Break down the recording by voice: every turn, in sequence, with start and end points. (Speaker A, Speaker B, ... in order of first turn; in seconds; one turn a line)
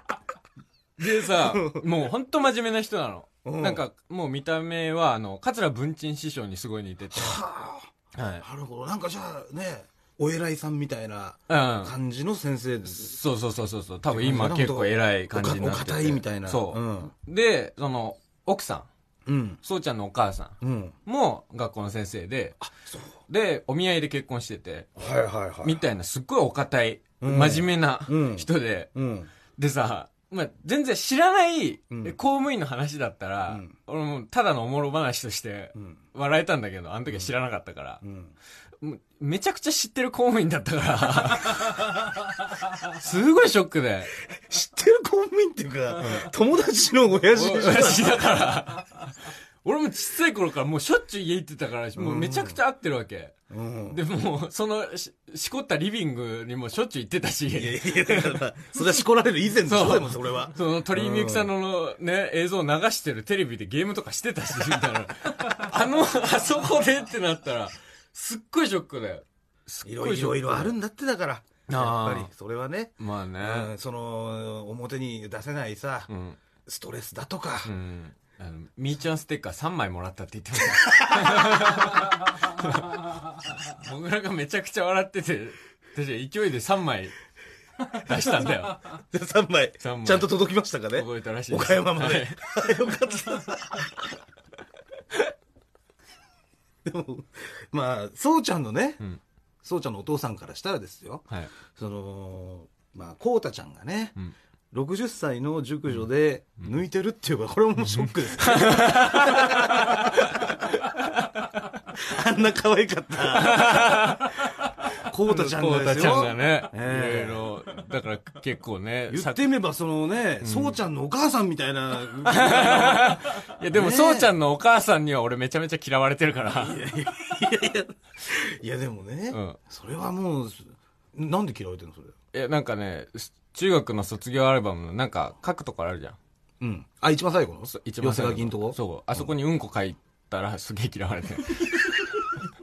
Speaker A: 1.0-7.4
Speaker B: 1.2-1.8
Speaker B: 3.4-3.8
Speaker B: 7.1-7.9
Speaker A: 8.2-8.4
Speaker B: 8.4-13.2
Speaker A: 11.5-11.9
Speaker A: 12.9-18.9
Speaker B: 14.1-17.1
Speaker B: 19.2-19.6
Speaker A: 19.6-22.6
Speaker B: 20.6-20.9
Speaker B: 22.6-23.1
Speaker A: 23.3-25.0
Speaker B: 25.0-25.8
Speaker A: 25.6-28.9
Speaker B: 27.2-29.3
Speaker A: 29.5-38.0
Speaker B: 31.9-32.2
Speaker B: 33.5-33.7
Speaker B: 38.0-38.3
Speaker A: 38.8-42.1
Speaker A: 42.8-44.1
Speaker B: 44.3-48.3
Speaker A: 46.0-46.3
Speaker A: 47.3-53.4
Speaker B: 52.0-52.6
Speaker B: 53.5-54.0
Speaker A: 53.9-58.4
Speaker B: 57.5-61.5
Speaker A: 59.6-70.8
Speaker B: 69.8-76.1
Speaker A: 71.7-72.3
Speaker A: 73.0-73.7
Speaker A: 76.1-76.4
Speaker B: 76.7-77.7
Speaker A: 77.6-87.2
Speaker B: 80.7-81.8
Speaker A: 87.8-89.0
Speaker B: 89.0-94.2
Speaker A: 89.8-90.3
Speaker A: 90.9-92.8
Speaker B: 96.8-99.0
Speaker B: 99.6-104.2
Speaker B: 104.7-110.7
Speaker A: 107.9-111.6
Speaker B: 111.9-114.3
Speaker A: 113.2-119.4
Speaker B: 114.9-117.5
Speaker B: 119.1-124.3
Speaker A: 120.4-120.8
Speaker A: 122.2-126.8
Speaker B: 126.5-132.1
Speaker A: 129.3-129.6
Speaker A: 132.3-136.2
Speaker B: 136.6-139.3
Speaker A: 137.7-141.9